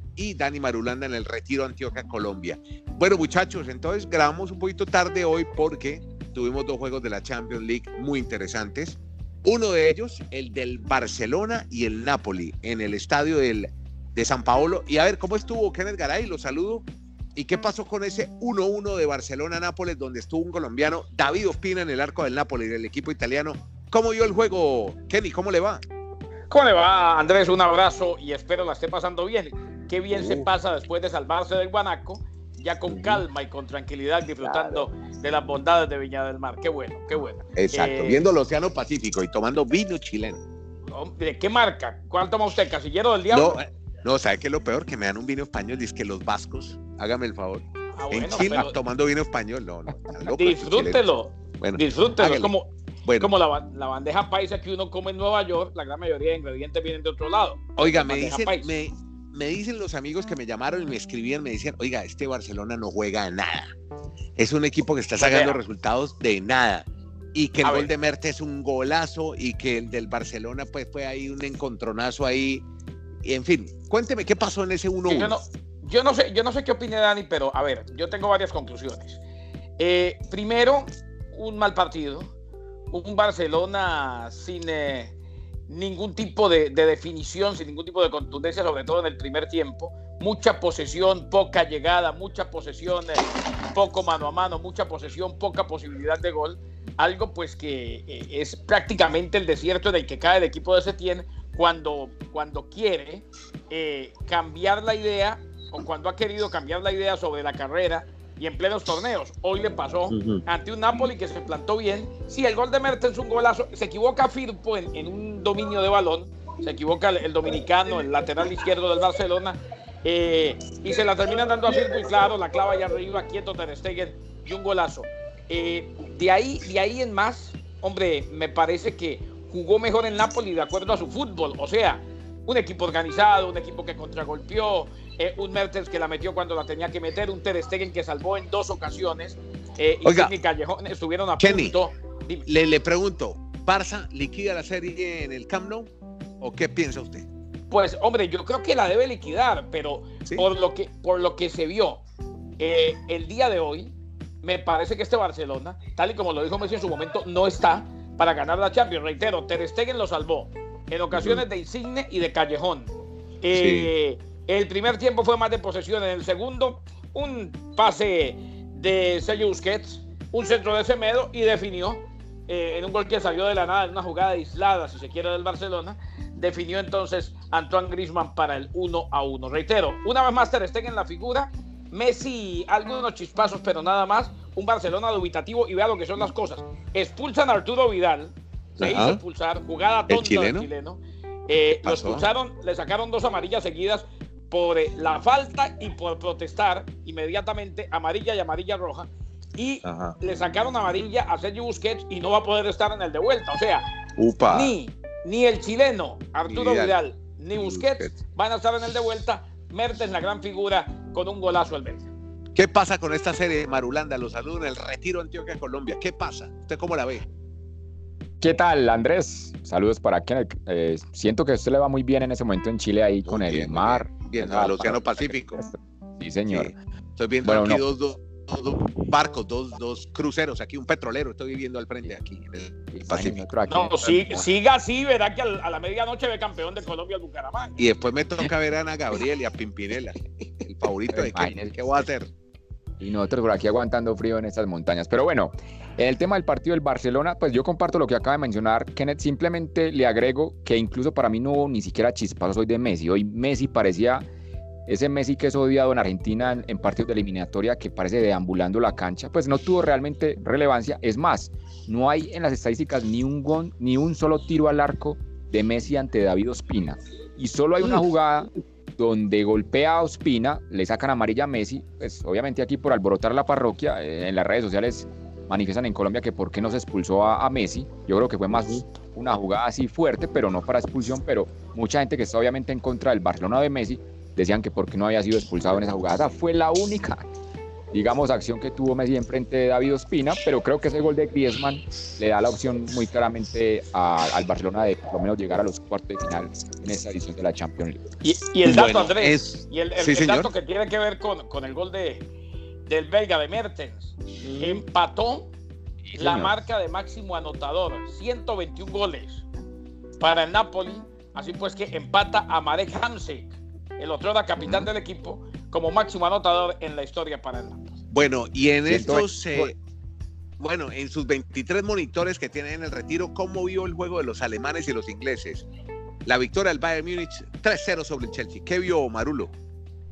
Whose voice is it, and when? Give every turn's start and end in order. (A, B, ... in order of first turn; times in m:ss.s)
0:00.2-0:25.8 A
0:26.5-0:38.2 B
0:30.1-0:30.5 A
0:32.9-0:33.2 A
0:34.4-0:34.8 A
0:37.6-0:40.4 A
0:40.9-0:43.6 B
0:43.3-0:52.5 A
0:48.0-0:48.7 B
0:50.3-0:58.7 B
0:53.0-0:53.3 A
0:57.8-1:03.7 A
1:04.4-1:12.6 A
1:05.2-1:05.6 B
1:07.6-1:07.9 B
1:13.2-1:15.4 A
1:15.1-1:19.2 B
1:19.8-1:22.3 B
1:22.9-1:25.1 B
1:25.7-2:22.4 B
1:50.1-1:50.4 A
2:20.0-2:20.3 A
2:21.4-2:21.7 A
2:22.4-2:27.3 A
2:27.7-2:32.0 B
2:32.6-3:23.8 B
2:41.1-2:41.4 A
2:43.5-2:43.9 A
3:08.8-3:09.2 A
3:10.1-3:10.7 A
3:11.8-3:12.2 A
3:19.8-3:20.2 A
3:24.2-3:24.7 A
3:24.5-3:32.1 B
3:26.4-3:27.0 A
3:27.5-3:28.2 A
3:32.6-3:37.2 A
3:38.4-3:46.7 C
3:43.2-3:45.6 A
3:46.5-3:53.4 A
3:47.4-3:47.8 C
3:52.9-3:54.3 C
3:53.7-3:57.8 B
3:54.1-3:54.4 A
3:57.8-4:02.3 A
4:01.1-4:02.0 C
4:03.0-4:14.2 C
4:14.9-4:47.2 C
4:38.5-4:38.8 A
4:47.9-4:58.0 C
4:58.2-5:02.2 B
4:58.6-5:00.5 A
5:02.8-5:05.5 B
5:04.4-5:04.8 A
5:06.0-5:06.5 C
5:06.2-5:09.4 B
5:10.2-5:17.9 B
5:14.6-5:14.9 C
5:18.1-5:19.8 A
5:18.8-5:19.7 C
5:20.6-5:25.6 A
5:26.2-5:29.5 A